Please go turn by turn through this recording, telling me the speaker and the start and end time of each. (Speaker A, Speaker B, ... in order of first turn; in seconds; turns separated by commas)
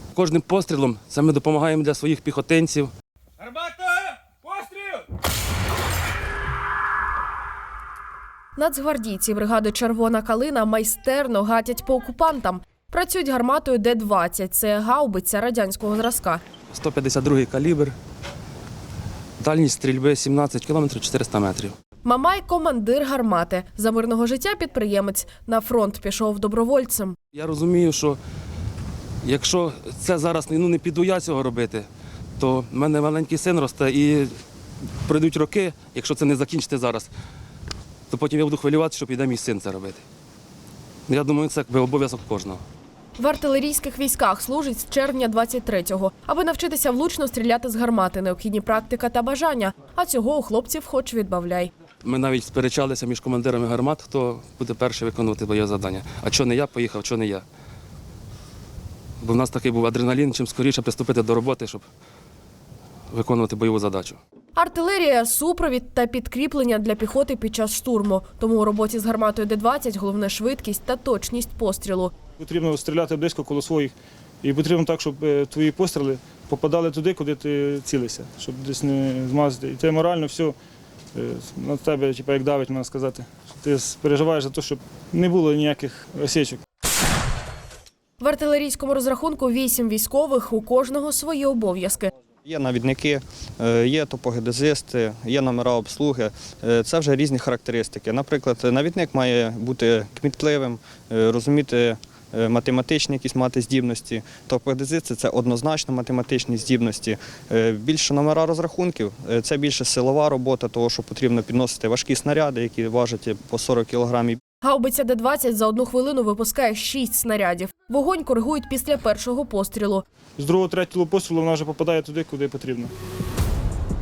Speaker A: 0.1-5.0, Speaker B: 8.6-16.4, Speaker A: 16.7-17.9, Speaker A: 19.4-21.7, Speaker B: 22.0-27.1, Speaker A: 27.3-28.2, Speaker A: 29.2-34.3, Speaker A: 35.0-37.1, Speaker A: 38.1-40.0, Speaker A: 41.1-42.6, Speaker B: 43.2-51.7, Speaker A: 52.0-57.4, Speaker A: 59.2-61.9, Speaker A: 63.1-64.2, Speaker B: 64.5-72.1, Speaker C: 72.3-80.5, Speaker C: 81.1-86.6, Speaker B: 88.2-92.1, Speaker D: 92.4-114.4, Speaker B: 114.6-120.0, Speaker C: 120.4-122.9